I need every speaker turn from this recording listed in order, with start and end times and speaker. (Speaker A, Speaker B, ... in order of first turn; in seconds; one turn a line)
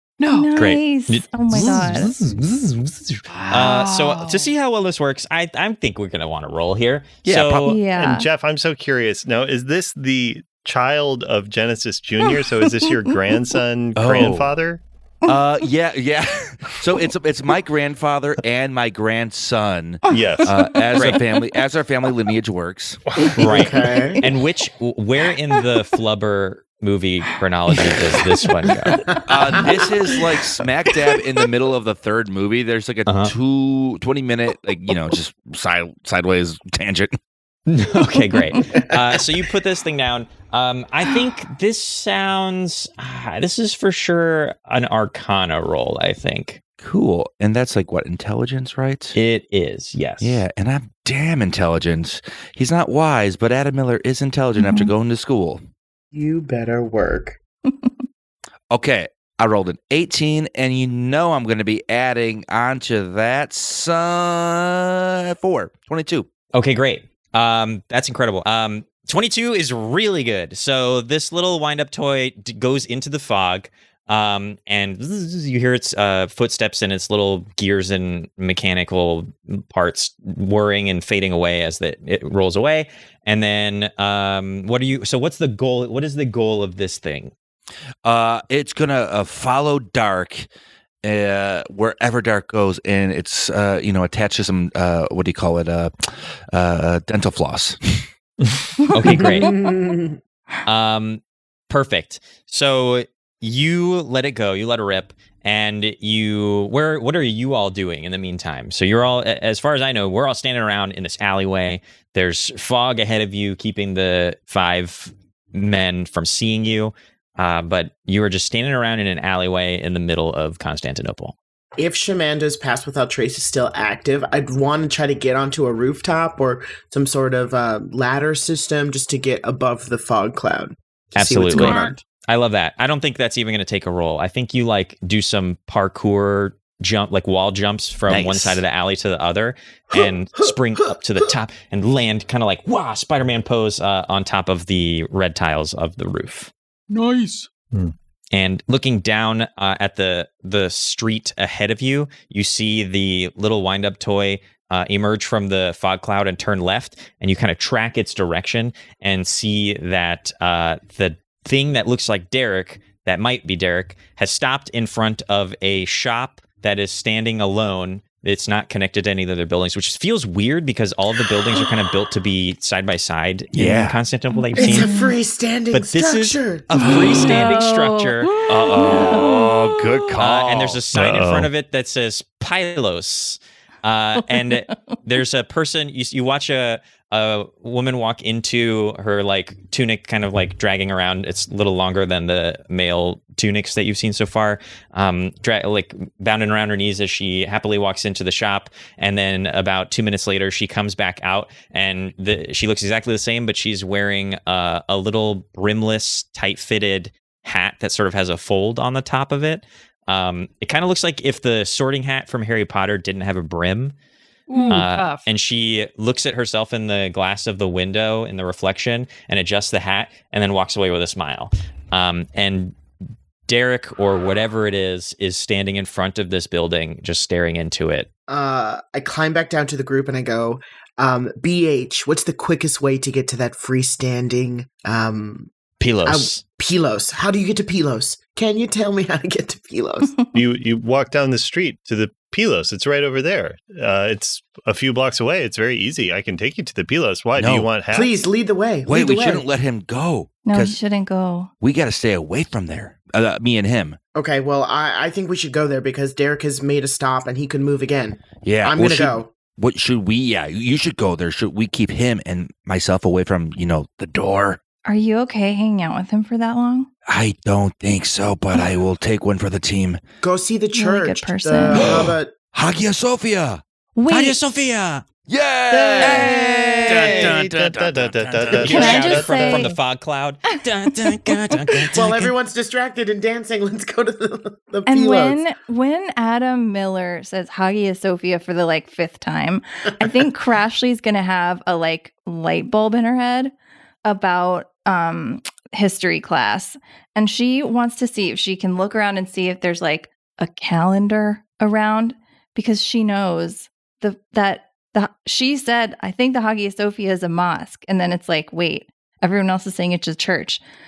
Speaker A: 0.2-0.5
Speaker B: 0.3-2.1
Speaker C: 0.6-7.8
Speaker A: 3.3-4.5
Speaker D: 7.2-7.7
Speaker B: 7.6-8.3
Speaker E: 8.0-14.8
Speaker B: 12.2-13.2
Speaker D: 14.0-14.5
Speaker D: 15.3-23.0
Speaker B: 20.1-21.5
Speaker E: 20.1-20.6
Speaker C: 21.0-21.2
Speaker C: 23.4-29.0
Speaker F: 23.4-24.2
Speaker F: 29.0-30.2
Speaker D: 29.3-37.2
Speaker B: 31.1-31.4
Speaker C: 33.1-33.3
Speaker C: 37.7-46.6
Speaker F: 38.6-38.9
Speaker D: 46.8-49.2
Speaker C: 49.1-50.5
Speaker D: 50.2-55.6
Speaker B: 54.6-54.9
Speaker F: 56.1-57.4
Speaker D: 58.7-66.3
Speaker C: 66.5-87.3
Speaker D: 88.0-90.5
Speaker D: 91.0-95.9
Speaker D: 96.5-98.1
Speaker C: 98.9-99.5
Speaker F: 99.2-100.2
Speaker C: 100.7-121.4
Speaker F: 121.8-132.0
Speaker C: 131.2-146.5
Speaker A: 131.6-132.0
Speaker D: 138.1-138.6
Speaker F: 139.9-141.3
Speaker A: 146.9-147.3
Speaker C: 148.3-174.9
Speaker D: 173.5-174.0
Speaker B: 174.6-175.2
Speaker F: 174.6-176.9
Speaker C: 175.7-178.4
Speaker B: 176.8-180.1
Speaker D: 176.8-177.4
Speaker D: 178.5-180.8
Speaker C: 180.2-213.9
Speaker E: 180.9-181.5
Speaker B: 184.4-184.8
Speaker A: 214.5-215.3
Speaker B: 214.5-214.8
Speaker C: 214.7-222.8
Speaker C: 223.5-228.1
Speaker F: 228.3-235.5
Speaker C: 235.8-236.4
Speaker F: 236.1-240.1
Speaker E: 240.3-248.1
Speaker D: 247.4-247.8
Speaker F: 247.9-249.5
Speaker D: 248.9-250.8
Speaker B: 250.4-251.5
Speaker D: 251.6-254.0
Speaker F: 254.2-259.3
Speaker D: 258.4-264.6
Speaker B: 264.9-266.9
Speaker D: 267.1-270.0
Speaker F: 270.2-272.4
Speaker B: 270.7-272.1
Speaker D: 271.8-273.6
Speaker B: 273.9-274.4
Speaker C: 274.1-275.1
Speaker D: 275.3-279.6
Speaker E: 275.7-279.6
Speaker B: 276.0-277.0
Speaker C: 276.9-277.4
Speaker C: 278.6-282.3
Speaker B: 278.6-279.8
Speaker B: 280.5-281.9
Speaker F: 281.9-285.4
Speaker B: 284.9-293.5
Speaker B: 294.1-310.6